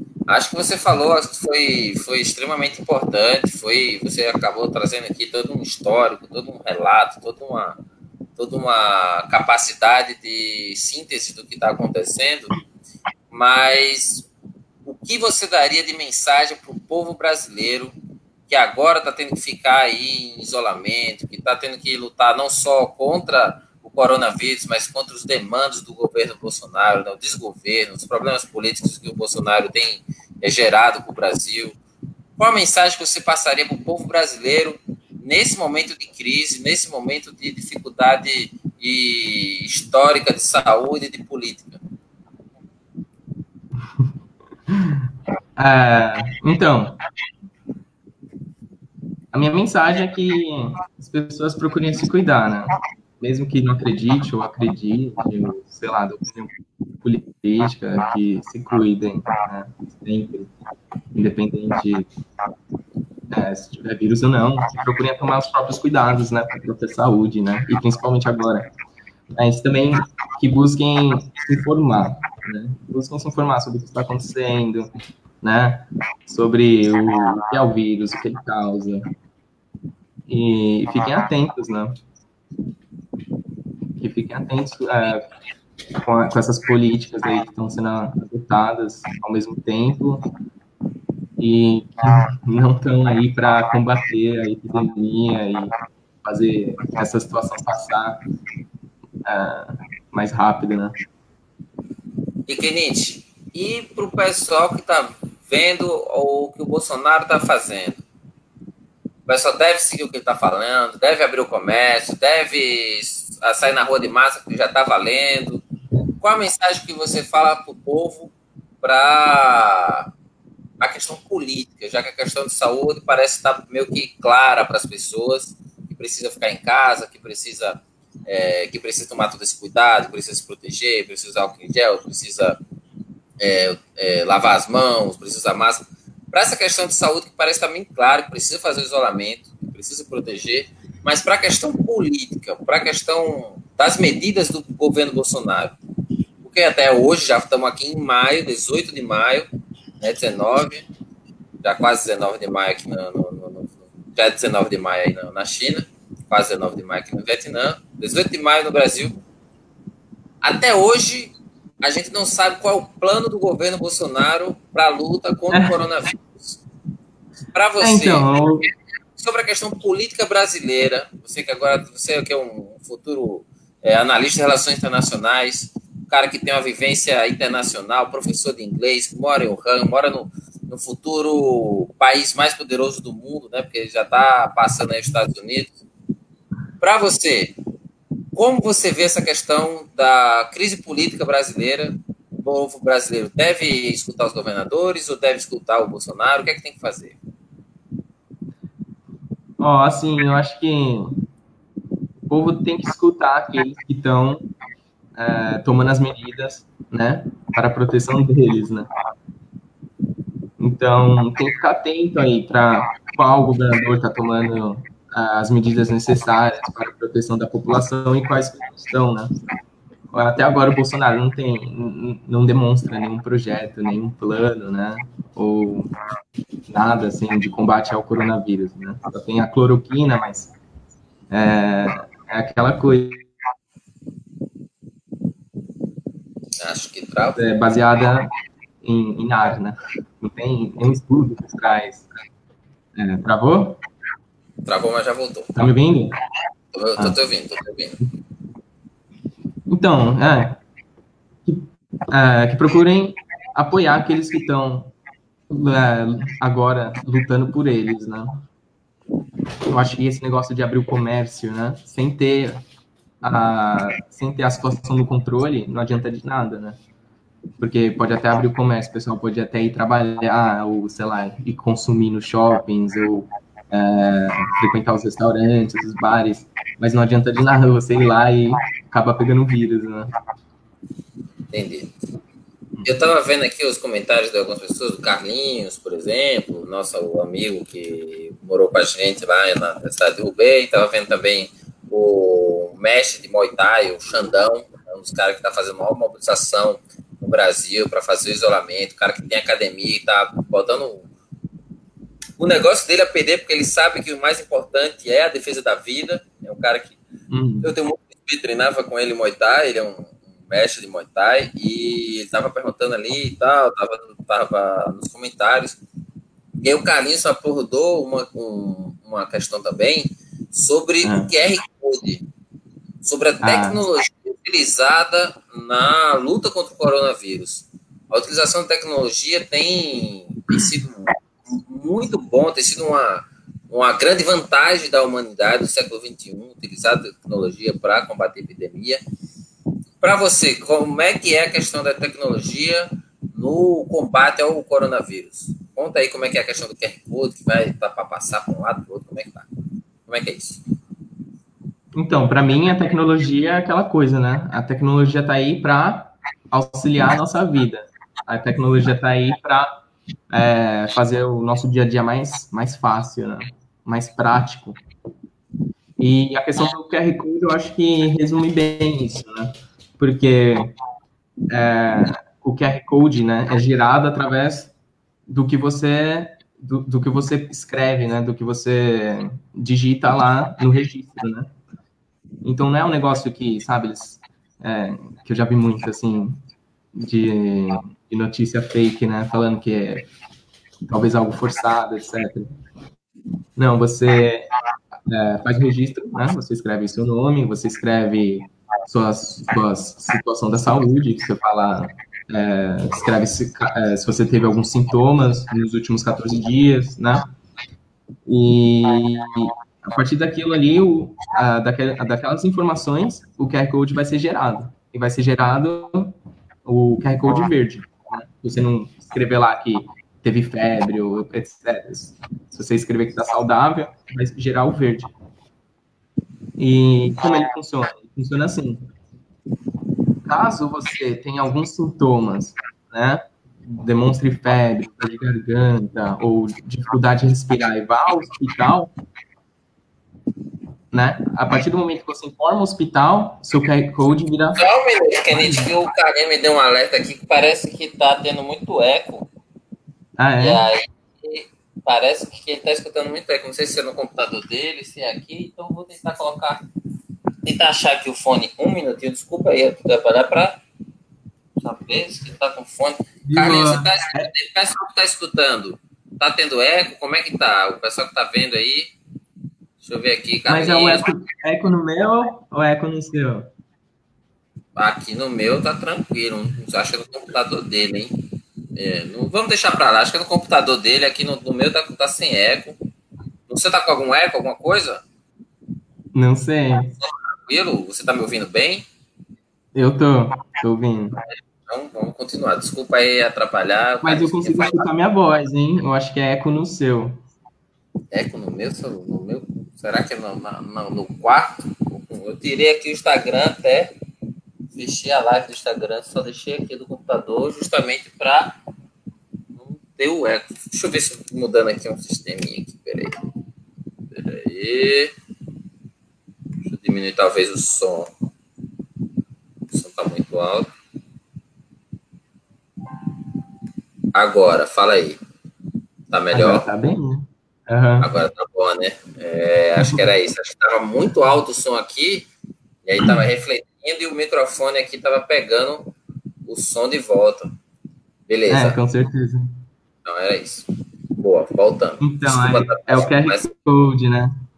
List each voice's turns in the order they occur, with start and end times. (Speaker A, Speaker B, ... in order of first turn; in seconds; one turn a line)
Speaker A: 0.3-7.8
Speaker A: 8.3-12.5
Speaker A: 13.3-14.3
Speaker A: 14.8-17.9
Speaker A: 18.5-31.8
Speaker A: 32.4-41.8
Speaker B: 44.7-45.0
Speaker B: 45.5-47.0
Speaker B: 49.3-60.5
Speaker B: 61.1-62.1
Speaker B: 63.3-68.7
Speaker B: 69.3-74.9
Speaker B: 75.4-79.1
Speaker B: 80.3-82.0
Speaker B: 84.0-85.2
Speaker B: 86.0-90.2
Speaker B: 91.4-98.2
Speaker B: 99.2-100.9
Speaker A: 102.5-108.0
Speaker A: 109.2-115.6
Speaker A: 116.2-120.1
Speaker A: 120.8-132.6
Speaker A: 133.4-145.8
Speaker A: 146.4-149.5
Speaker A: 150.0-150.8
Speaker A: 151.6-159.2
Speaker A: 160.4-166.6
Speaker A: 167.5-168.3
Speaker B: 167.8-168.7
Speaker A: 169.1-185.8
Speaker A: 186.8-187.5
Speaker A: 188.3-197.2
Speaker B: 199.6-201.2
Speaker B: 202.3-204.5
Speaker B: 205.2-208.9
Speaker B: 210.6-219.3
Speaker B: 220.1-225.9
Speaker B: 226.7-230.5
Speaker B: 231.3-233.3
Speaker A: 236.6-237.5
Speaker B: 237.4-238.3
Speaker B: 238.8-242.0
Speaker B: 242.9-243.8
Speaker A: 244.7-245.5
Speaker B: 245.6-246.1
Speaker A: 246.7-248.0
Speaker B: 249.7-250.6
Speaker B: 251.4-254.9
Speaker B: 255.5-258.4
Speaker B: 259.7-262.6
Speaker B: 263.2-266.8
Speaker B: 267.6-280.1
Speaker A: 281.5-281.9
Speaker A: 282.8-301.1
Speaker A: 302.4-307.0
Speaker B: 307.3-307.7
Speaker A: 307.6-315.8
Speaker A: 316.6-322.2
Speaker B: 321.0-321.3
Speaker A: 323.0-339.0
Speaker B: 323.4-323.8
Speaker A: 340.0-349.5
Speaker A: 350.1-350.6
Speaker B: 351.9-359.7
Speaker B: 360.3-364.8
Speaker B: 366.0-370.7
Speaker B: 371.5-374.7
Speaker B: 375.3-381.5
Speaker B: 382.4-386.4
Speaker B: 386.9-390.1
Speaker B: 390.9-392.5
Speaker B: 393.6-394.5
Speaker B: 395.1-407.3
Speaker B: 408.2-425.1
Speaker B: 426.6-428.9
Speaker B: 430.2-438.9
Speaker B: 440.9-444.6
Speaker A: 444.6-449.3
Speaker B: 445.3-445.7
Speaker B: 450.2-450.6
Speaker A: 450.4-456.6
Speaker A: 457.4-460.6
Speaker A: 461.6-468.9
Speaker B: 463.2-464.3
Speaker A: 469.8-471.1
Speaker B: 470.5-473.5
Speaker A: 474.8-478.1
Speaker A: 478.8-482.8
Speaker A: 483.5-485.0
Speaker B: 486.1-486.9
Speaker A: 487.0-488.9
Speaker B: 489.7-491.2
Speaker A: 491.7-494.9
Speaker B: 494.0-497.2
Speaker A: 498.1-503.9
Speaker A: 504.7-508.6
Speaker A: 509.6-513.2
Speaker A: 514.1-515.1
Speaker A: 516.6-518.1
Speaker A: 519.7-520.7
Speaker A: 524.1-525.2
Speaker A: 526.1-526.7
Speaker B: 526.3-528.1
Speaker A: 528.0-532.3
Speaker B: 529.8-530.1
Speaker A: 532.8-535.9
Speaker A: 536.5-537.5
Speaker A: 538.3-538.8
Speaker B: 538.5-539.5
Speaker A: 540.0-543.5
Speaker B: 542.0-544.3